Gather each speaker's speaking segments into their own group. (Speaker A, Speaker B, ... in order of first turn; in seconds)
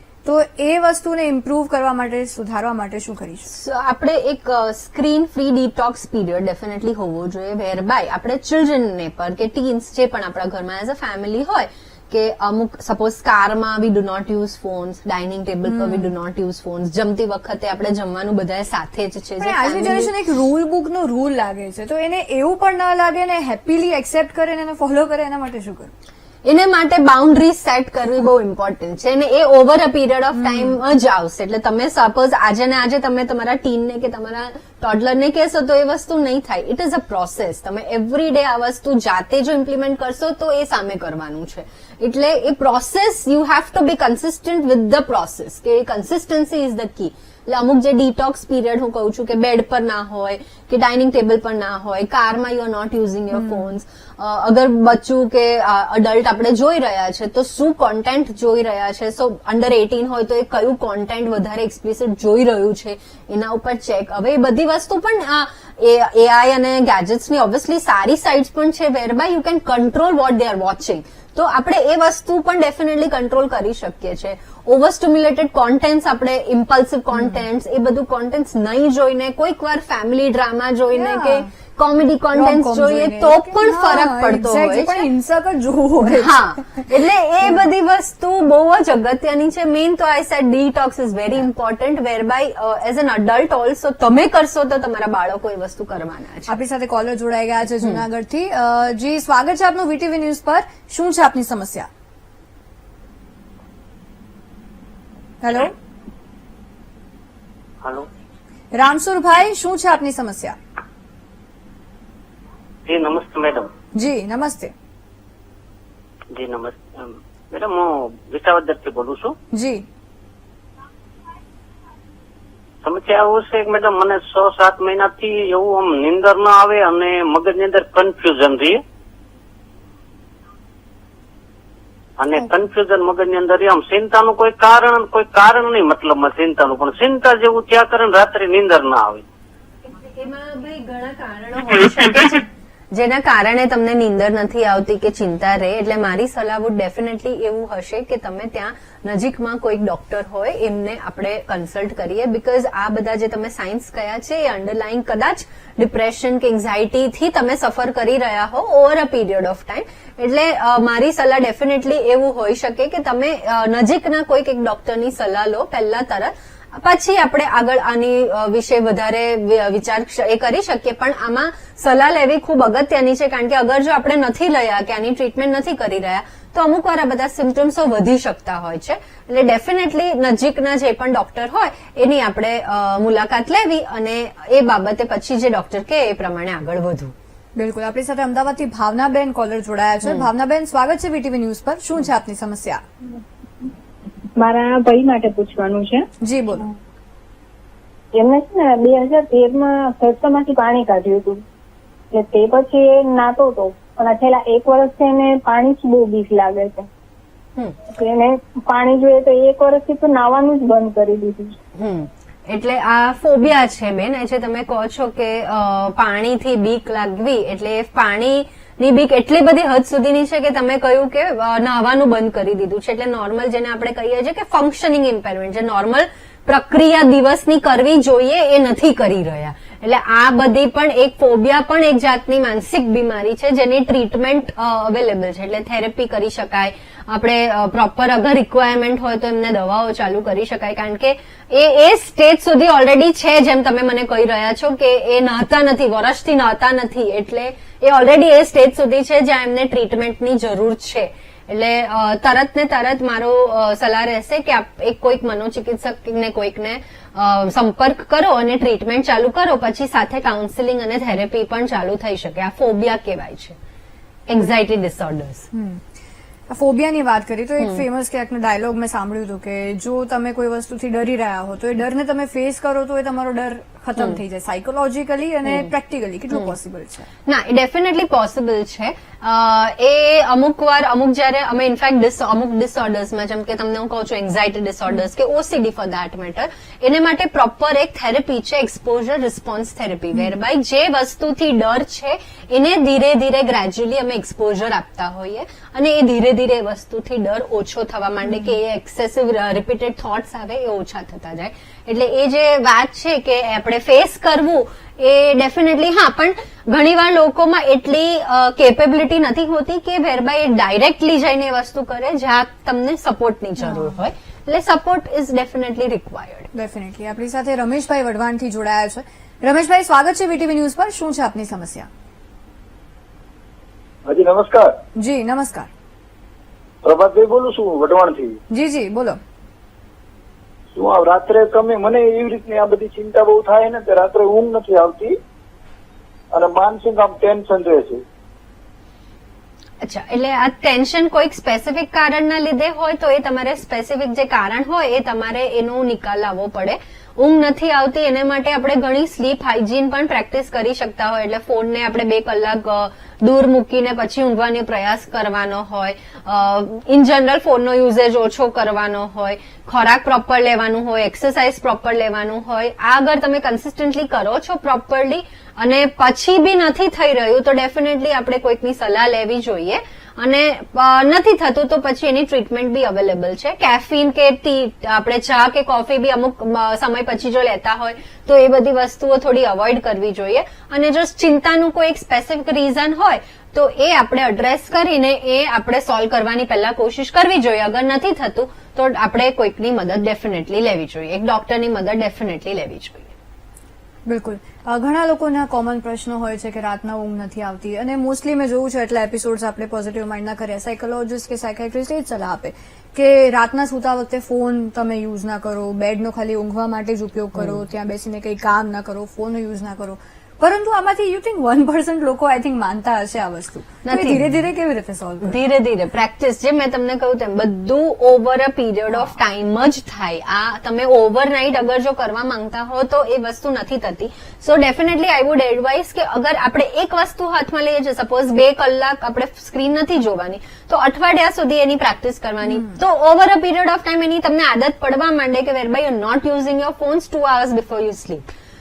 Speaker A: 0.2-3.5, 15.7-16.1, 19.4-25.9, 30.4-30.8, 53.3-53.7, 77.2-77.4, 80.9-81.5, 82.3-86.8, 96.5-101.9, 105.4-105.7, 108.7-110.6, 114.0-114.7, 119.5-119.8, 187.6-192.8, 196.2-196.7, 265.5-265.8, 266.5-277.1, 298.3-298.5, 313.7-313.9, 316.5-321.9, 325.0-325.7, 328.5-329.2, 394.1-415.4, 432.5-432.8
Speaker B: 3.5-20.1, 26.4-85.1, 86.0-96.5, 139.9-187.1, 211.8-263.6, 264.3-265.5, 277.3-316.5, 339.8-393.1, 413.9-414.2, 415.2-438.3
Speaker C: 112.9-113.7, 116.3-119.3, 122.8-128.8, 132.2-139.2
Speaker D: 194.4-196.1, 198.1-201.4, 202.1-206.9, 207.9-211.6
Speaker E: 324.1-324.8, 326.8-328.4, 330.8-335.2, 336.3-338.0